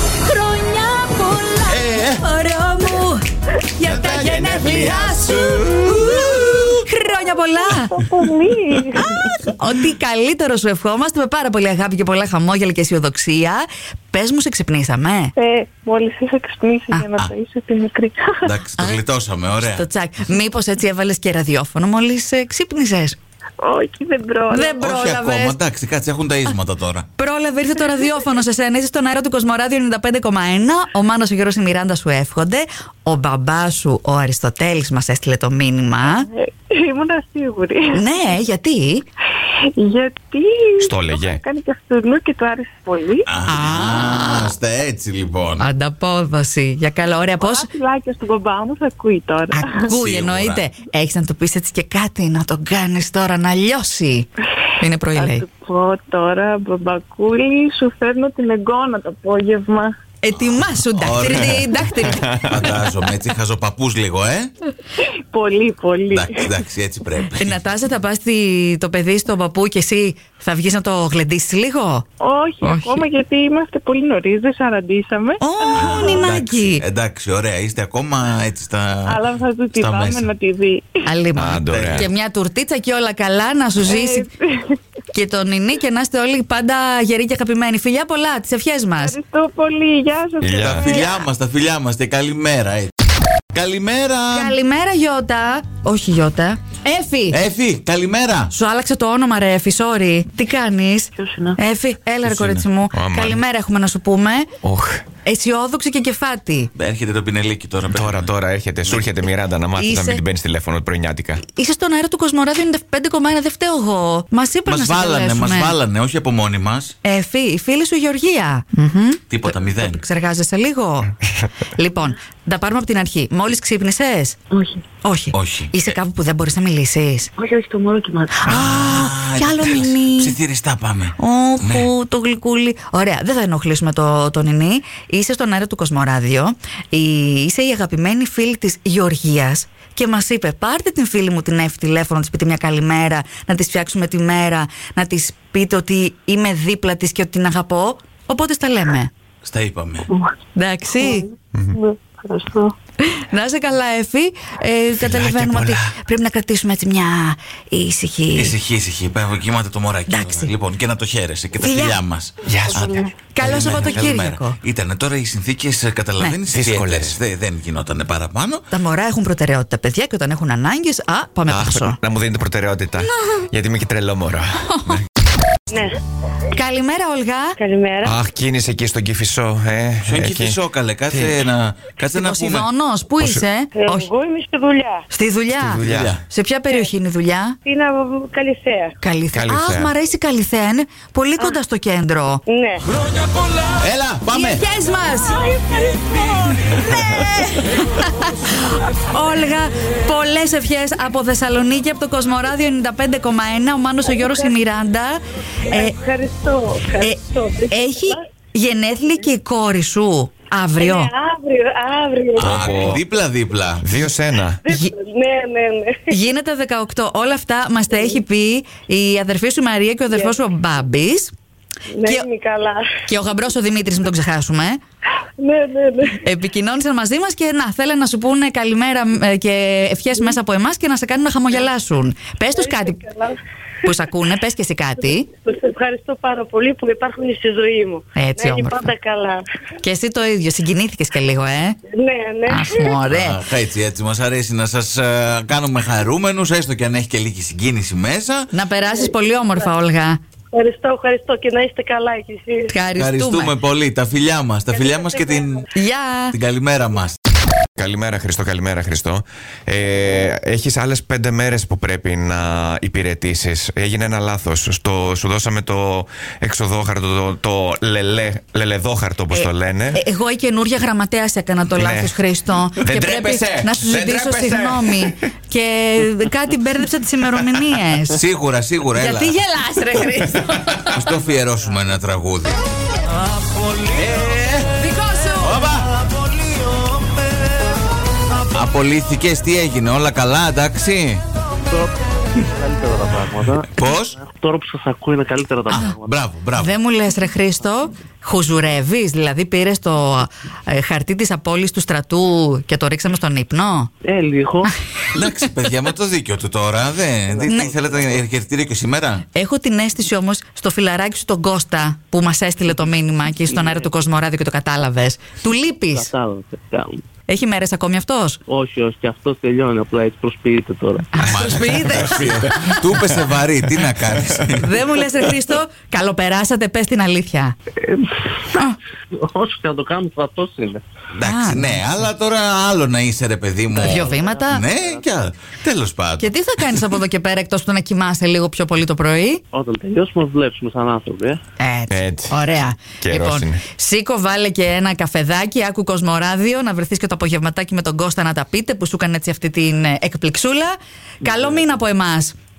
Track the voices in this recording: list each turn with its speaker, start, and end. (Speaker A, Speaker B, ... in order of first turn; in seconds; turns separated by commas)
Speaker A: 0.2-3.2, Speaker B: 1.7-2.2, Speaker A: 3.7-8.0, Speaker B: 3.8-6.8, Speaker C: 7.0-9.0, Speaker A: 8.9-15.3, Speaker C: 15.4-18.5, Speaker B: 18.4-19.9, Speaker A: 19.6-23.2, Speaker C: 23.6-24.9, Speaker A: 24.5-25.6, Speaker B: 24.8-27.1, Speaker A: 27.2-36.3, Speaker C: 36.1-38.0, Speaker A: 37.9-39.1, Speaker C: 39.8-43.3, Speaker D: 40.8-41.4, Speaker B: 43.3-45.7, Speaker A: 43.5-44.5, Speaker A: 45.6-47.7, Speaker C: 47.4-49.9, Speaker A: 49.5-55.5, Speaker B: 49.9-50.7, Speaker C: 55.1-59.9, Speaker A: 60.2-62.9, Speaker B: 60.4-61.9, Speaker D: 61.2-62.6, Speaker B: 62.5-64.5, Speaker C: 65.0-66.5, Speaker B: 66.1-67.6, Speaker A: 67.4-72.0, Speaker C: 72.2-76.1, Speaker A: 72.6-73.0, Speaker A: 75.4-76.8, Speaker B: 75.7-79.2, Speaker C: 79.1-81.0, Speaker B: 79.8-80.3, Speaker A: 81.0-84.3, Speaker D: 81.4-82.1, Speaker B: 81.7-82.1, Speaker C: 83.9-84.8, Speaker A: 85.1-89.2, Speaker C: 89.0-91.2, Speaker D: 90.4-90.9, Speaker B: 90.6-92.9, Speaker B: 93.5-94.6, Speaker A: 94.3-97.4, Speaker B: 97.3-98.5, Speaker A: 98.5-104.5, Speaker E: 101.2-101.6, Speaker D: 102.2-103.4, Speaker D: 104.6-105.0, Speaker A: 105.2-106.7, Speaker B: 106.8-108.3, Speaker D: 107.9-111.4, Speaker A: 109.8-110.2, Speaker A: 111.4-115.8, Speaker B: 114.7-117.0, Speaker A: 117.0-121.2, Speaker B: 119.3-120.0, Speaker A: 121.7-124.4, Speaker A: 125.0-127.3, Speaker B: 125.3-125.9, Speaker E: 127.4-128.5, Speaker A: 128.4-130.4, Speaker B: 128.4-131.9, Speaker A: 131.2-149.1, Speaker B: 149.4-150.1, Speaker A: 150.6-151.3, Speaker C: 151.8-152.7, Speaker A: 153.0-158.6, Speaker D: 155.0-155.7, Speaker B: 158.4-168.7, Speaker A: 160.1-160.5, Speaker A: 161.6-162.0, Speaker D: 162.5-162.9, Speaker A: 163.3-164.6, Speaker D: 166.5-167.2, Speaker A: 168.7-172.0, Speaker D: 171.5-175.0, Speaker A: 173.0-173.5, Speaker A: 174.6-175.0, Speaker F: 175.7-176.0, Speaker A: 176.5-177.6, Speaker F: 177.6-178.2, Speaker D: 178.0-181.4, Speaker B: 180.0-182.7, Speaker A: 182.1-184.1, Speaker F: 183.8-185.1, Speaker A: 185.1-187.6, Speaker D: 185.6-186.2, Speaker B: 185.8-186.2, Speaker F: 187.7-188.9, Speaker A: 189.0-192.4, Speaker D: 189.3-189.9, Speaker F: 192.5-192.8, Speaker B: 193.8-194.6, Speaker A: 194.3-195.5, Speaker F: 195.3-196.6, Speaker A: 196.7-205.2, Speaker D: 196.9-197.2, Speaker F: 204.2-204.5, Speaker F: 205.7-208.2, Speaker A: 207.0-211.1, Speaker F: 210.8-212.9, Speaker B: 212.4-213.9, Speaker D: 212.4-213.0, Speaker D: 213.8-214.6, Speaker F: 214.6-216.1, Speaker A: 216.1-221.3, Speaker F: 220.1-220.4, Speaker F: 221.9-222.9, Speaker A: 223.1-224.8, Speaker F: 225.4-226.2, Speaker A: 226.1-233.0, Speaker F: 232.6-233.4, Speaker A: 233.8-235.3, Speaker F: 235.3-239.4, Speaker A: 238.2-238.9, Speaker A: 239.8-241.8, Speaker F: 241.9-243.0, Speaker A: 242.5-243.4, Speaker B: 243.1-248.5, Speaker A: 248.5-250.2, Speaker F: 248.8-249.7, Speaker F: 250.5-252.7, Speaker A: 252.7-253.6, Speaker B: 253.0-255.7, Speaker F: 254.7-255.7, Speaker A: 255.7-256.4, Speaker B: 256.3-257.2, Speaker D: 257.8-270.0, Speaker A: 269.3-278.2, Speaker D: 271.7-275.2, Speaker B: 278.1-279.4, Speaker A: 278.9-280.8, Speaker B: 280.9-282.6, Speaker B: 283.8-284.7, Speaker A: 284.8-285.7, Speaker B: 285.4-285.9, Speaker B: 288.5-291.2, Speaker E: 291.6-296.1, Speaker B: 293.7-294.2, Speaker B: 295.7-296.7, Speaker A: 296.6-303.9, Speaker E: 304.0-304.8, Speaker B: 305.1-309.2, Speaker E: 307.4-308.1, Speaker A: 309.4-316.1, Speaker E: 313.5-313.8, Speaker E: 315.9-317.0, Speaker A: 317.3-318.4, Speaker E: 318.5-321.1, Speaker A: 321.1-322.9, Speaker B: 321.2-324.8, Speaker D: 321.4-322.3, Speaker A: 324.5-327.5, Speaker E: 327.8-330.8, Speaker B: 331.2-337.0, Speaker A: 331.2-331.8, Speaker E: 333.7-335.2, Speaker A: 333.8-334.6, Speaker A: 336.2-339.4, Speaker E: 339.5-341.4, Speaker A: 341.6-352.3, Speaker D: 341.9-342.4, Speaker D: 343.0-343.6, Speaker E: 351.3-351.6